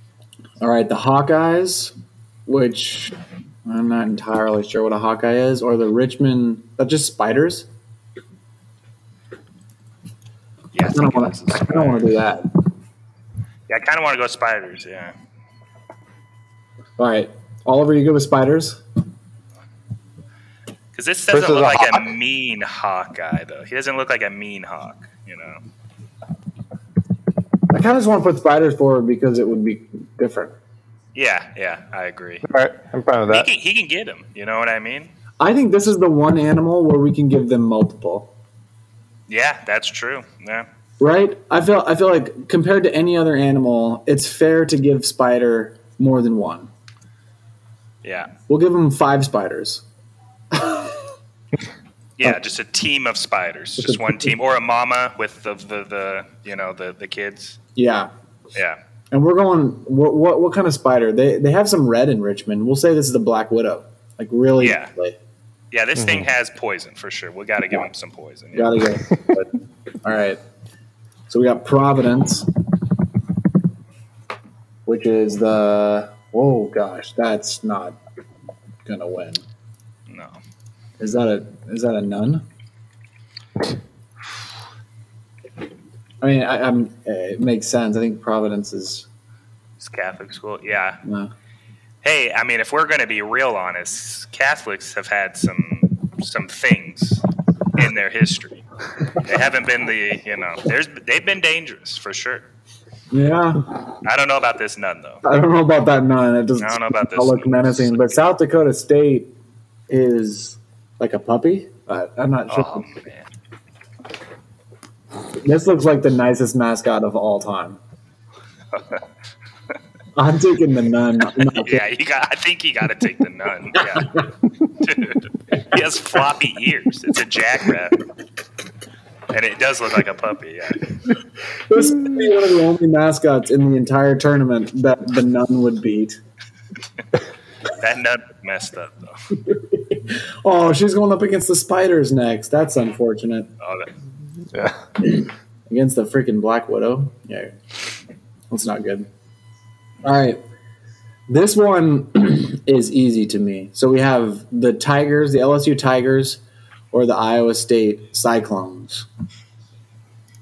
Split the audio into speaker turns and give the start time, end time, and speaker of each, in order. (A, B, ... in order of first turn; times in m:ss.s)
0:00.6-0:01.9 A
0:02.5-0:03.1 A
0:03.6-0:07.7 A
0:10.7-0:12.2 B
0:10.9-0:12.5 A
0:13.7-0:15.1 B
0:17.0-0:18.8 A
0:20.9-0:25.6 B
0:21.3-0:22.1 C
0:27.7-0:30.6 A
0:31.1-0:32.4 B
0:32.4-0:33.5 C
0:33.3-0:35.1 B
0:35.4-0:38.3 A
0:39.3-0:40.6 B
0:41.0-0:46.7 A
0:48.0-0:48.3 B
0:48.5-0:49.8 A
0:50.5-0:51.0 A
0:52.2-0:57.6 B
0:53.8-0:54.3 A
0:57.8-0:58.1 A
0:59.1-1:05.2 A
1:04.6-1:04.9 B
1:05.7-1:08.8 B
1:06.0-1:06.3 C
1:08.5-1:09.5 A
1:10.0-1:10.4 A
1:11.3-1:12.5 A
1:14.9-1:18.0 A
1:18.8-1:19.4 A
1:20.1-1:20.4 B
1:21.0-1:22.4 A
1:26.2-1:29.1 A
1:29.8-1:31.0 B
1:31.0-1:31.3 A
1:32.0-1:37.2 B
1:37.8-1:38.6 B
1:39.2-1:42.4 B
1:43.1-1:43.7 A
1:44.0-1:45.2 B
1:45.2-1:49.3 A
1:46.6-1:48.2 B
1:49.9-1:52.9 A
1:52.5-1:53.3 B
1:55.4-1:57.8 A
1:58.7-1:59.0 B
2:00.2-2:01.8 A
2:01.4-2:08.0 B
2:03.8-2:04.2 A
2:09.3-2:10.9 B
2:11.7-2:16.2 A
2:17.7-2:19.2 B
2:19.5-2:23.5 A
2:23.6-2:23.9 B
2:24.5-2:24.8 C
2:25.0-2:27.6 A
2:28.5-2:29.1 A
2:30.0-2:30.4 A
2:31.3-2:36.4 A
2:36.9-2:39.0 A